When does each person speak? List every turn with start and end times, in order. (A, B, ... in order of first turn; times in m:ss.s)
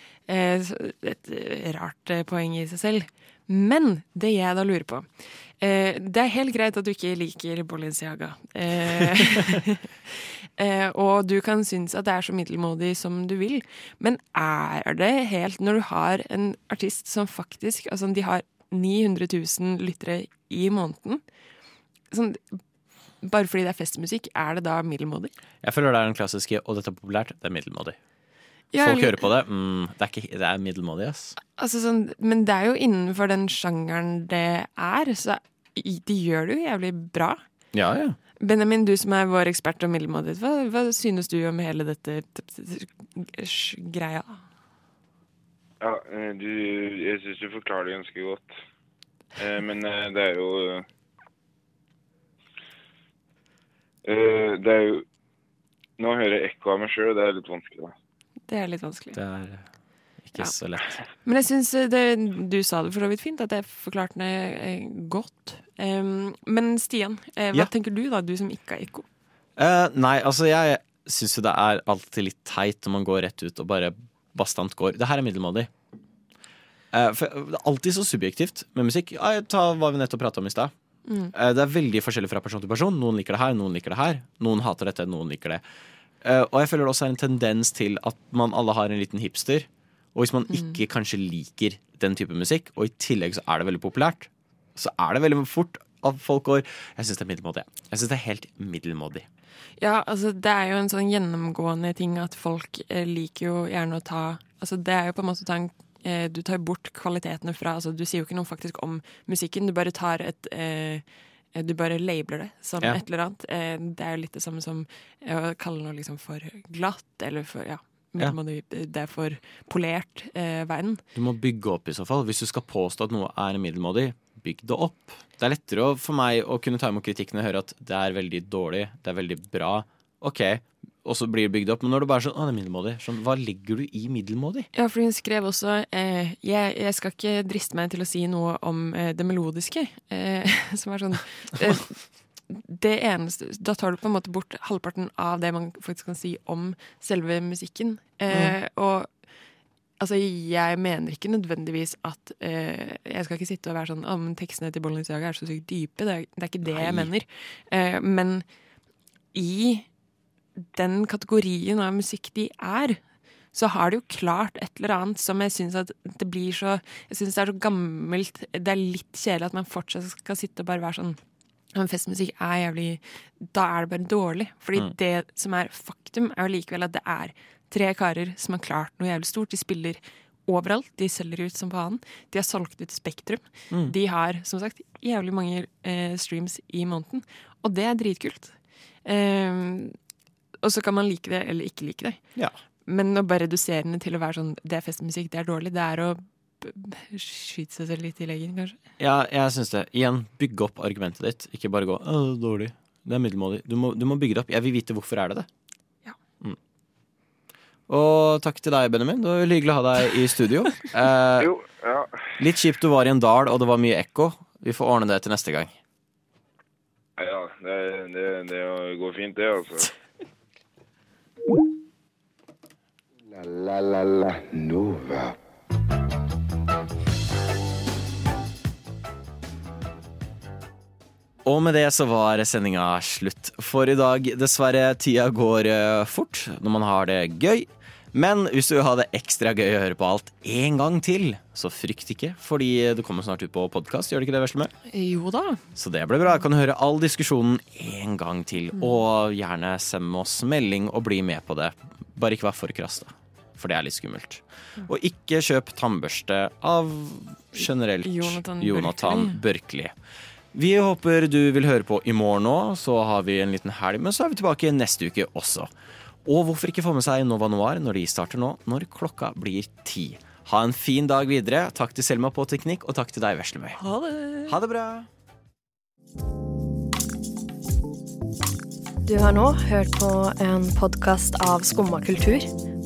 0:00.3-0:21.2 A
0:22.1-0:22.6 A
0:23.2-0:25.3 A
0:25.6-0:28.0 B
0:28.7-0:29.2 A
0:28.8-0:31.4 B
0:31.6-0:37.4 A
0:37.7-0:38.2 B
0:38.4-0:44.4 A
0:45.8-0:48.5 C
0:49.4-0:50.8 C
0:54.0-0:55.0 C
0:56.0-0:57.9 C
0:58.5-0:59.2 A
0:59.1-0:59.6 B
1:00.2-1:01.0 B
1:01.2-1:09.1 A
1:09.6-1:15.7 B
1:16.9-1:20.7 B
1:21.1-1:21.3 A
1:21.3-1:25.6 B
1:26.2-1:39.3 B
1:30.5-1:30.8 A
1:39.8-2:01.0 A
2:01.1-2:14.7 B
2:14.7-2:29.1 A
2:28.3-2:28.5 B
2:30.0-2:38.4 A
2:36.6-2:37.1 B
2:39.3-2:39.9 A
2:40.6-2:43.0 A
2:43.5-2:51.2 A
2:51.7-3:10.0 A
3:10.6-3:12.2 A
3:12.8-3:18.8 A
3:19.0-3:25.5 B
3:27.9-3:31.5 B
3:31.4-3:32.2 C
3:32.4-3:35.8 B
3:37.2-3:39.9 C
3:43.2-3:45.4 D
3:51.4-4:04.7 B
4:04.8-4:05.6 A
4:05.7-4:19.9 B
4:18.0-4:19.4 A
4:20.5-4:25.7 B
4:26.2-4:33.8 B
4:33.8-4:34.6 A
4:34.5-4:35.1 B
4:39.0-4:42.5 E